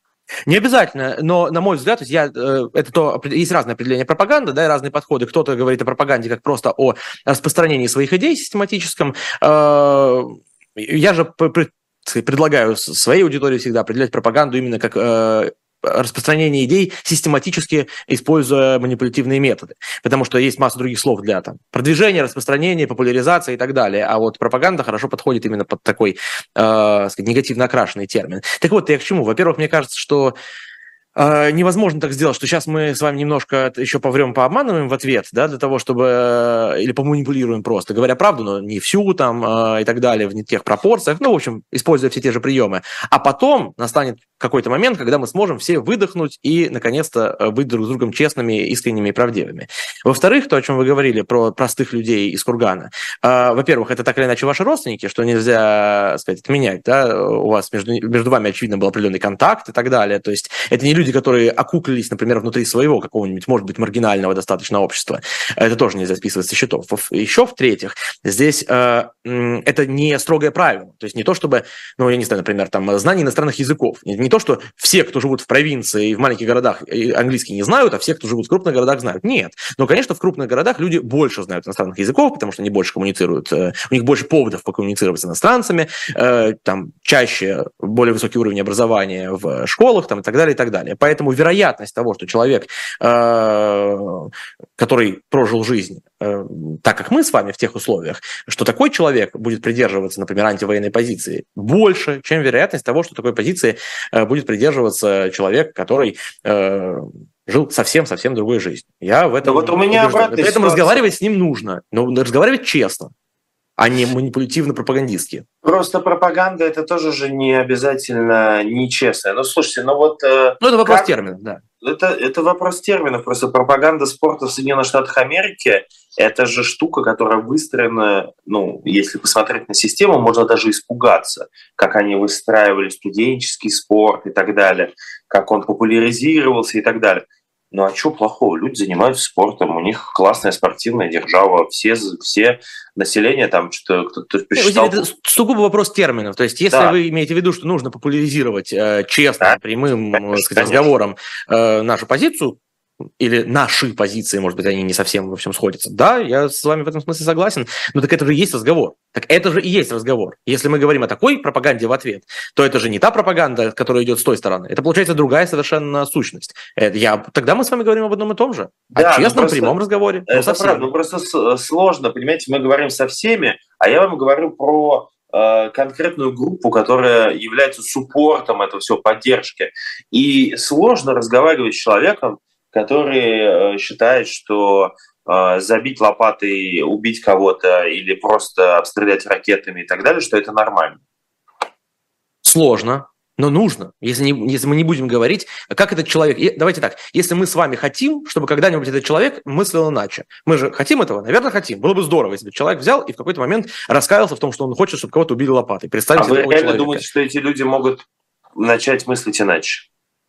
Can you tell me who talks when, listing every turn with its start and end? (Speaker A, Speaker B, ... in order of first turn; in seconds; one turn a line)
Speaker A: 0.5-30.4
Speaker A: 31.2-113.1
Speaker B: 109.4-111.1
Speaker A: 113.8-115.5
Speaker B: 115.6-121.1
Speaker A: 120.6-121.6
Speaker B: 121.8-145.1
Speaker A: 144.6-152.6
Speaker B: 146.7-147.0
Speaker B: 150.2-150.9
Speaker A: 153.2-170.8
Speaker B: 168.9-169.8
Speaker B: 170.3-191.0
Speaker A: 192.4-207.0
Speaker B: 206.2-208.0
Speaker B: 208.6-209.9